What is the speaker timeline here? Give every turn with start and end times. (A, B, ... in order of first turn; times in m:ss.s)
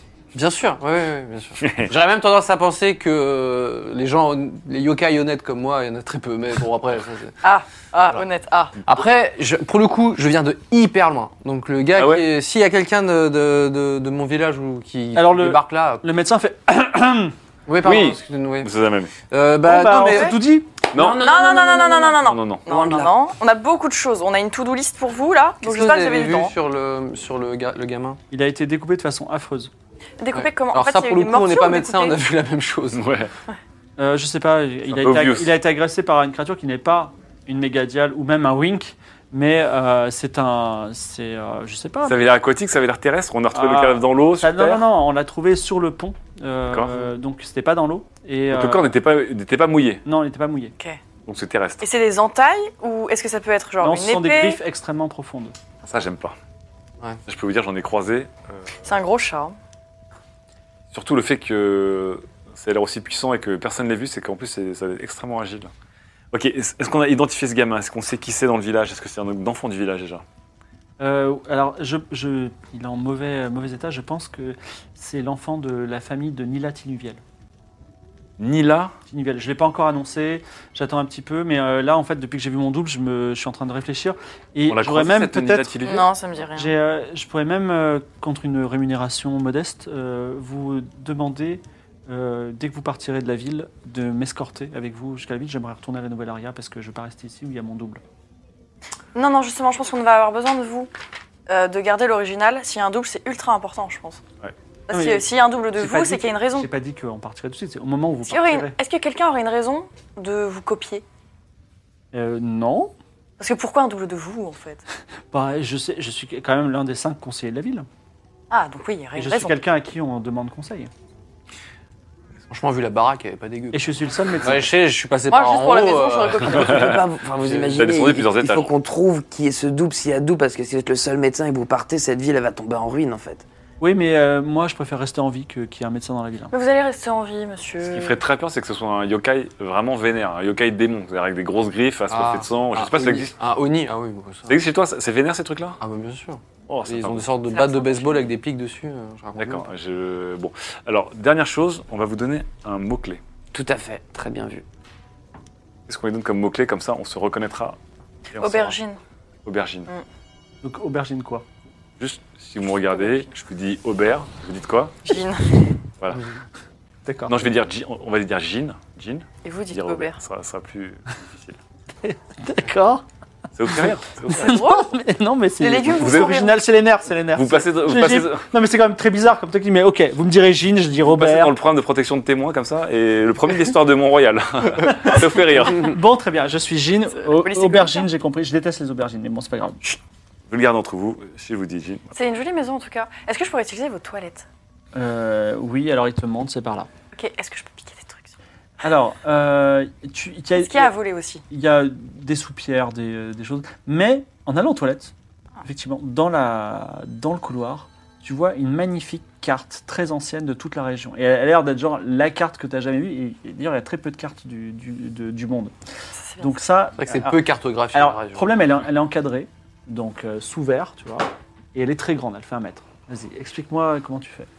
0:00.3-0:07.4 A
0:01.6-0:01.9 B
0:07.4-0:08.8 C
0:08.8-0:16.0 A
0:11.9-0:12.2 B
0:15.1-0:17.3 D
0:17.7-0:18.7 A
0:17.8-0:19.1 B
0:19.2-0:20.4 A
0:19.6-0:20.7 D
0:20.0-0:20.4 C
0:20.9-0:21.2 B
0:20.9-0:23.2 E
0:21.2-0:26.5 C
0:22.2-0:22.6 B
0:25.6-0:28.2 A
0:28.3-0:29.7 D
0:30.2-0:32.2 C
0:30.3-0:33.0 A
0:32.9-0:33.3 B
0:34.0-0:42.2 D
0:34.9-0:35.5 B
0:42.0-0:44.8 B
0:43.5-0:48.9 D
0:46.7-0:47.0 B
0:48.5-0:50.0 B
0:50.0-0:50.7 D
0:51.3-0:51.9 B
0:51.8-0:54.6 C
0:53.8-0:55.5 D
0:55.8-0:56.4 B
0:57.2-0:58.7 B
0:58.8-0:59.6 C
1:00.9-1:05.7 B
1:06.3-1:10.2 B
1:11.0-1:17.2 D
1:18.4-1:18.9 B
1:19.1-1:25.8 D
1:24.7-1:26.1 B
1:25.8-1:26.7 C
1:26.5-1:38.0 D
1:39.1-1:40.9 C
1:41.5-1:44.2 C
1:44.9-1:46.7 C
1:44.9-1:45.2 D
1:45.8-1:48.7 D
1:48.3-1:51.0 C
1:52.1-1:52.9 D
1:53.4-1:54.8 C
1:55.3-1:57.9 D
1:58.5-1:59.6 C
1:59.2-2:00.9 D
2:02.5-2:06.8 A
2:03.7-2:04.7 D
2:05.3-2:07.0 C
2:06.6-2:06.9 B
2:06.6-2:13.4 E
2:07.4-2:07.7 A
2:07.6-2:08.7 B
2:13.8-2:16.5 D
2:16.5-2:18.2 C
2:17.9-2:23.4 B
2:22.1-2:24.6 A
2:24.5-2:25.8 B
2:25.8-2:29.7 A
2:26.7-2:27.3 B
2:27.5-2:28.3 C
2:29.4-2:33.2 B
2:33.5-2:34.6 E
2:35.9-2:37.8 B
2:38.3-2:38.8 B
2:38.4-2:39.0 C
2:39.4-2:39.9 B
2:40.6-2:41.4 D
2:42.0-2:45.0 B
2:45.0-2:45.7 C
2:47.0-2:47.4 D
2:47.3-2:51.6 B
2:49.4-2:50.2 C
2:52.0-2:53.0 D
2:53.5-2:54.6 B
2:53.7-3:01.5 D
2:54.4-2:54.9 C
2:55.6-2:56.6 C
2:55.9-2:56.4 B
2:57.3-2:58.4 B
3:01.0-3:05.9 B
3:05.7-3:09.8 D
3:07.1-3:08.1 C
3:09.8-3:12.1 B
3:12.1-3:14.4 C
3:14.9-3:16.9 D
3:17.1-3:18.3 C
3:18.8-3:20.9 D
3:20.6-3:21.4 C
3:21.5-3:35.7 D
3:36.1-3:36.6 C
3:36.4-3:44.5 D
3:37.0-3:38.6 A